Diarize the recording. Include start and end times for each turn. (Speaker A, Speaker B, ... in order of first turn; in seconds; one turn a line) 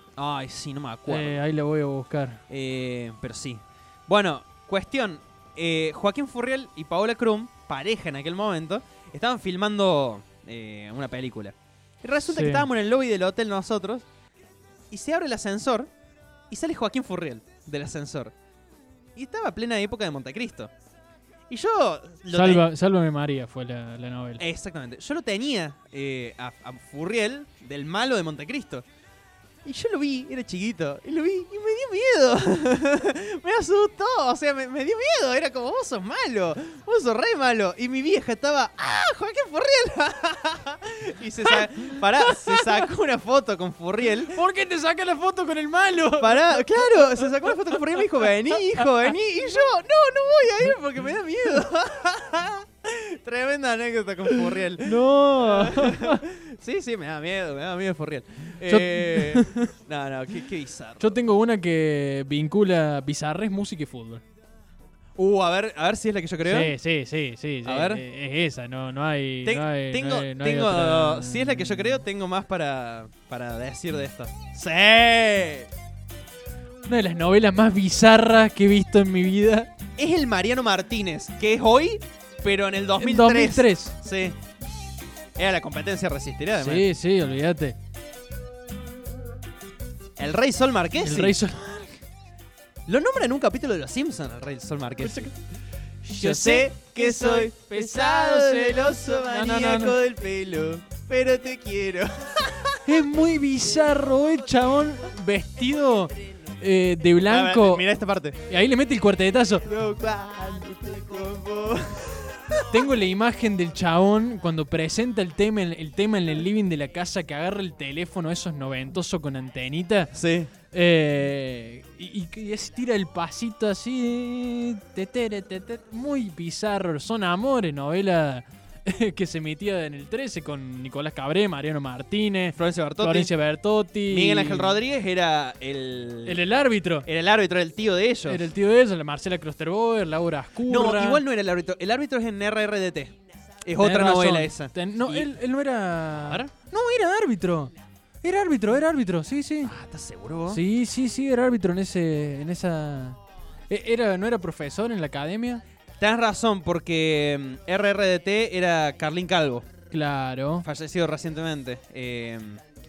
Speaker A: 0.2-1.4
Speaker B: 1.1-2.4
Speaker A: 2.5-14.1
Speaker B: 12.2-12.7
Speaker A: 14.9-15.9
Speaker A: 16.5-18.3
Speaker A: 19.1-20.7
Speaker A: 21.5-22.7
Speaker B: 22.3-24.4
Speaker A: 24.4-28.9
Speaker A: 29.6-44.3
Speaker B: 41.5-42.9
Speaker B: 44.3-48.9
Speaker A: 46.2-61.2
Speaker B: 54.3-56.2
Speaker B: 58.7-59.6
Speaker B: 61.0-64.2
Speaker A: 65.2-66.7
Speaker B: 66.5-72.0
Speaker A: 67.6-68.0
Speaker A: 69.4-75.7
Speaker B: 76.9-79.7
Speaker A: 80.0-84.4
Speaker B: 83.0-84.0
Speaker A: 85.4-86.9
Speaker B: 86.6-87.8
Speaker A: 90.2-91.4
Speaker B: 91.0-92.0
Speaker A: 92.9-95.3
Speaker B: 95.0-95.3
Speaker B: 96.0-100.0
Speaker A: 96.1-102.8
Speaker B: 102.8-107.9
Speaker A: 107.2-108.4
Speaker B: 108.5-109.7
Speaker A: 109.6-112.9
Speaker B: 112.7-120.1
Speaker A: 120.1-120.5
Speaker B: 120.7-134.8
Speaker A: 132.5-133.3
Speaker A: 134.1-136.5
Speaker B: 136.2-137.1
Speaker A: 137.0-138.5
Speaker B: 138.2-141.2
Speaker A: 140.7-145.3
Speaker B: 143.8-149.7
Speaker A: 146.2-146.5
Speaker A: 149.6-150.6
Speaker B: 150.5-153.2
Speaker B: 153.7-155.6
Speaker A: 156.0-159.7
Speaker B: 159.9-160.7
Speaker A: 160.6-162.6